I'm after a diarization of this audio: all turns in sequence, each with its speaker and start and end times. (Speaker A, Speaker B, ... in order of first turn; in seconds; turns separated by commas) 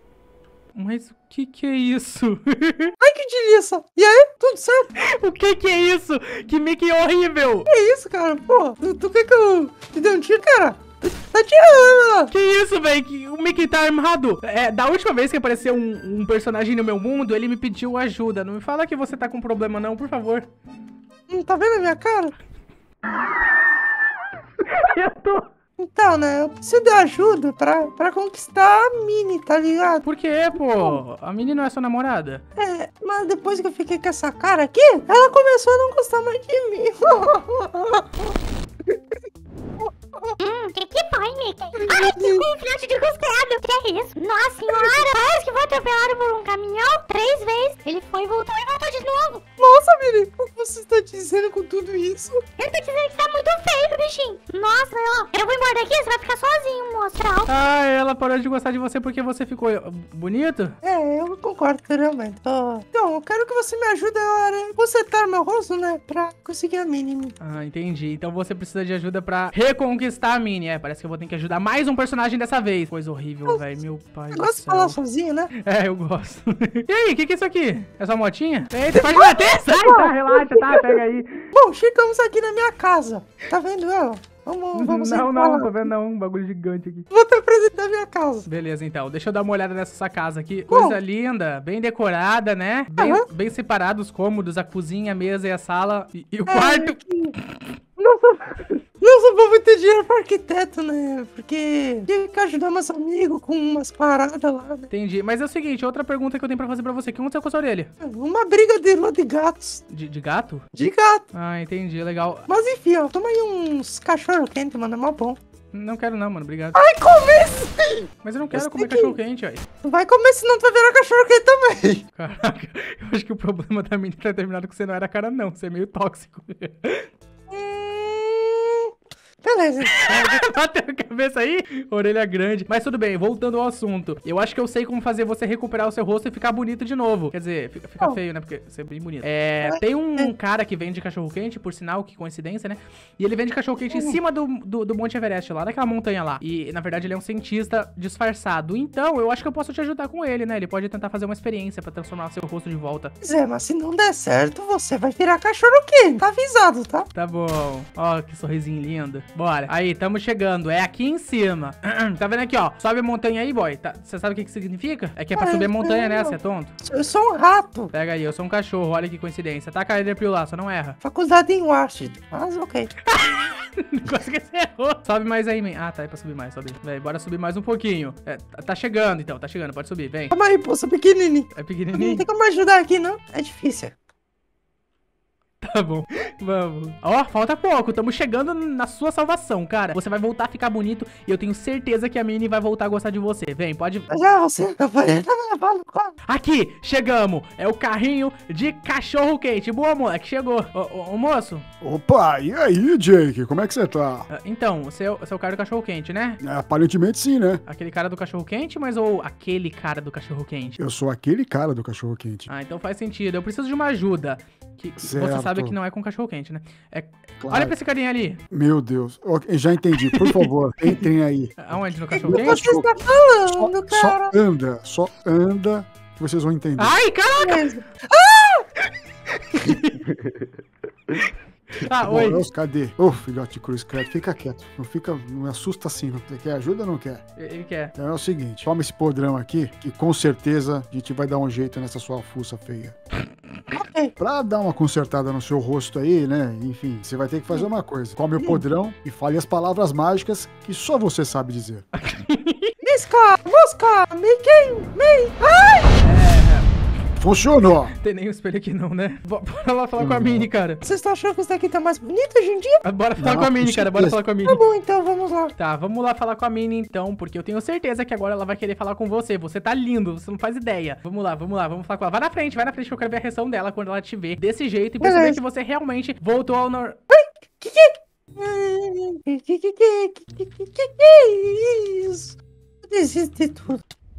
Speaker A: 0.7-2.9, Speaker B: 3.0-4.9, Speaker A: 5.0-7.7, Speaker B: 7.7-12.3, Speaker A: 12.3-20.5, Speaker B: 21.3-22.3, Speaker A: 24.6-25.5, Speaker B: 25.8-31.0, Speaker A: 30.0-32.4, Speaker B: 32.5-38.3, Speaker B: 39.8-40.4, Speaker C: 40.4-49.4, Speaker B: 41.8-42.5, Speaker B: 44.7-45.0, Speaker B: 49.6-52.4, Speaker C: 52.6-57.5, Speaker A: 57.5-60.7, Speaker B: 60.8-67.3, Speaker A: 67.4-75.0, Speaker B: 74.3-75.5, Speaker A: 75.5-81.5, Speaker B: 78.9-81.0, Speaker B: 81.5-85.9, Speaker A: 84.7-87.0, Speaker B: 87.1-88.5, Speaker A: 88.4-97.0, Speaker B: 90.7-91.0, Speaker B: 93.0-93.2, Speaker B: 96.5-97.3, Speaker B: 98.0-104.9, Speaker A: 104.9-107.9, Speaker B: 108.0-109.8, Speaker A: 109.9-110.6, Speaker B: 110.7-111.2, Speaker A: 111.3-112.5, Speaker B: 112.5-115.4, Speaker A: 115.7-116.8, Speaker B: 116.7-119.2, Speaker A: 118.2-119.6, Speaker B: 119.8-122.0, Speaker A: 122.1-127.1, Speaker B: 127.5-128.9, Speaker B: 129.4-130.4, Speaker A: 129.9-153.1, Speaker B: 139.6-140.3, Speaker B: 143.9-144.2, Speaker B: 153.2-157.1, Speaker A: 157.1-166.7, Speaker B: 165.3-167.9, Speaker A: 167.9-171.0, Speaker B: 171.0-172.9, Speaker A: 173.1-180.3, Speaker B: 180.3-183.9, Speaker A: 181.5-182.2, Speaker A: 185.6-194.1, Speaker B: 194.1-196.2, Speaker A: 196.3-201.7, Speaker D: 201.8-204.3, Speaker A: 204.3-206.4, Speaker D: 206.4-207.6, Speaker A: 207.6-210.8, Speaker D: 210.8-212.5, Speaker A: 212.5-218.4, Speaker D: 215.0-215.8, Speaker D: 217.4-217.7, Speaker D: 218.5-227.0, Speaker A: 220.1-220.4, Speaker A: 221.6-222.6, Speaker B: 222.2-224.3, Speaker A: 226.8-227.7, Speaker B: 227.4-228.6, Speaker A: 229.5-230.0, Speaker A: 231.7-232.4, Speaker D: 232.0-237.2, Speaker A: 237.4-237.9, Speaker D: 237.9-242.9, Speaker B: 243.7-244.1, Speaker D: 244.2-251.8, Speaker A: 251.9-252.7, Speaker B: 252.8-256.0, Speaker A: 256.0-256.7, Speaker D: 257.1-257.9, Speaker A: 257.9-260.8, Speaker D: 260.0-260.5, Speaker B: 260.8-262.8, Speaker A: 262.8-264.6, Speaker D: 263.2-264.2, Speaker B: 264.5-265.5, Speaker A: 265.6-277.0, Speaker B: 275.0-275.4, Speaker B: 277.1-283.9